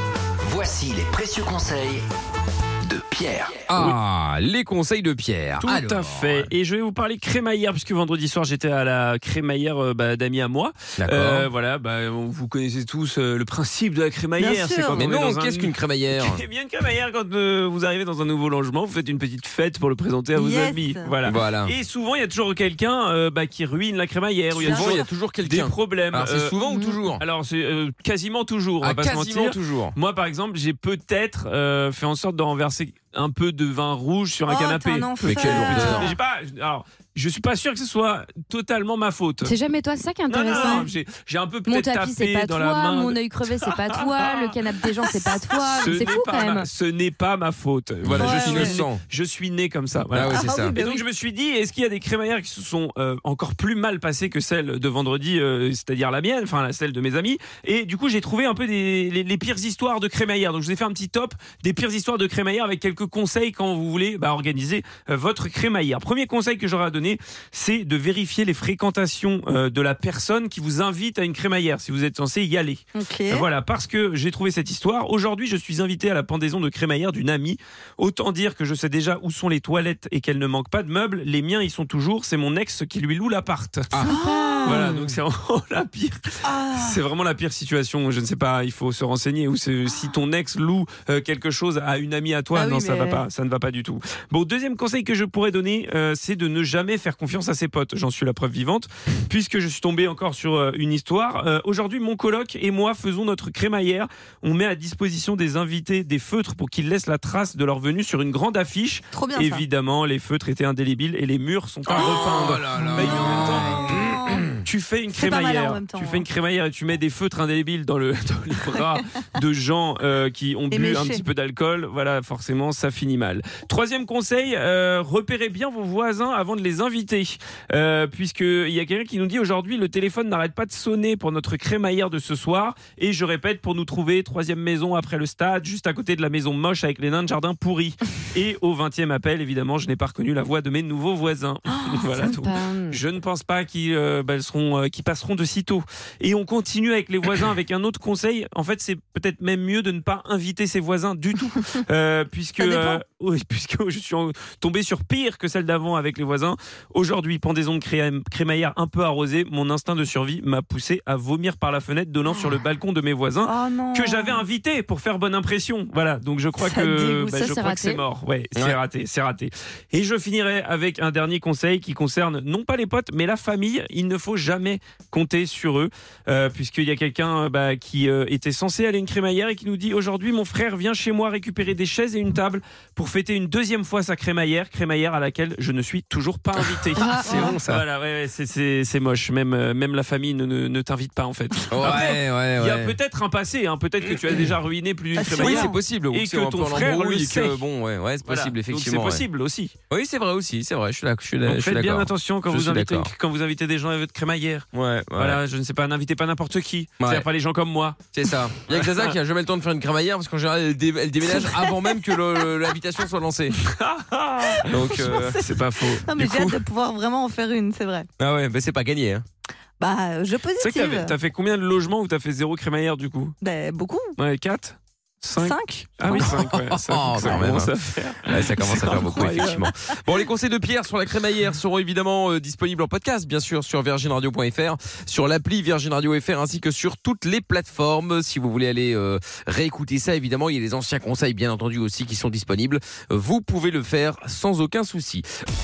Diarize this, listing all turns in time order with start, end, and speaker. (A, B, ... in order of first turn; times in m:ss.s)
0:00.4-0:02.0 A
0:02.8-0:03.7 A
0:03.7-0:06.5 B
0:05.6-0:26.6 C
0:11.0-0:11.5 B
0:14.4-0:15.0 D
0:15.0-0:16.4 B
0:20.4-0:21.1 D
0:21.2-0:21.7 B
0:24.5-0:27.2 B
0:24.6-0:25.1 D
0:26.6-0:27.0 E
0:27.2-0:39.6 C
0:28.8-0:30.0 B
0:34.5-0:36.2 D
0:35.2-0:36.2 B
0:39.4-0:40.9 E
0:40.3-1:24.1 C
0:40.5-0:40.9 D
0:41.7-0:46.7 E
0:45.8-0:46.2 D
0:48.0-0:49.0 B
0:48.1-0:48.8 D
0:50.1-0:50.8 B
0:50.2-0:51.0 D
1:13.0-1:13.5 D
1:24.0-1:25.2 E
1:24.0-1:24.8 D
1:24.6-1:54.0 C
1:26.4-1:27.0 D
1:32.5-1:33.2 D
1:49.1-1:49.6 D
1:51.9-1:54.6 B
1:53.0-1:54.5 D
1:54.6-3:17.6 C
1:55.1-1:56.2 D
2:00.7-2:01.2 D
2:22.2-2:23.0 E
2:32.6-2:33.0 D
2:42.3-2:42.6 D
2:43.4-2:44.4 D
2:46.6-2:47.7 D
2:47.6-2:48.0 E
3:06.6-3:07.8 B
3:07.0-3:07.5 E
3:07.3-3:07.6 D
3:11.7-3:13.0 B
3:14.0-3:14.6 B
3:15.2-3:15.8 D
3:15.2-3:19.2 B
3:18.2-3:19.8 C
3:19.9-3:23.1 B
3:21.4-3:29.2 C
3:24.7-3:25.4 B
3:27.0-3:27.3 B
3:28.1-3:33.6 B
3:31.3-3:31.7 D
3:33.6-3:36.4 C
3:34.5-3:38.1 D
3:34.7-3:35.4 B
3:36.2-3:36.6 B
3:38.2-3:39.2 B
3:39.8-3:41.1 D
3:40.6-3:43.4 C
3:43.4-3:44.2 D
3:44.2-3:49.7 C
3:45.4-3:46.4 D
3:46.1-3:47.7 B
3:48.3-4:05.2 B
3:48.9-3:49.7 D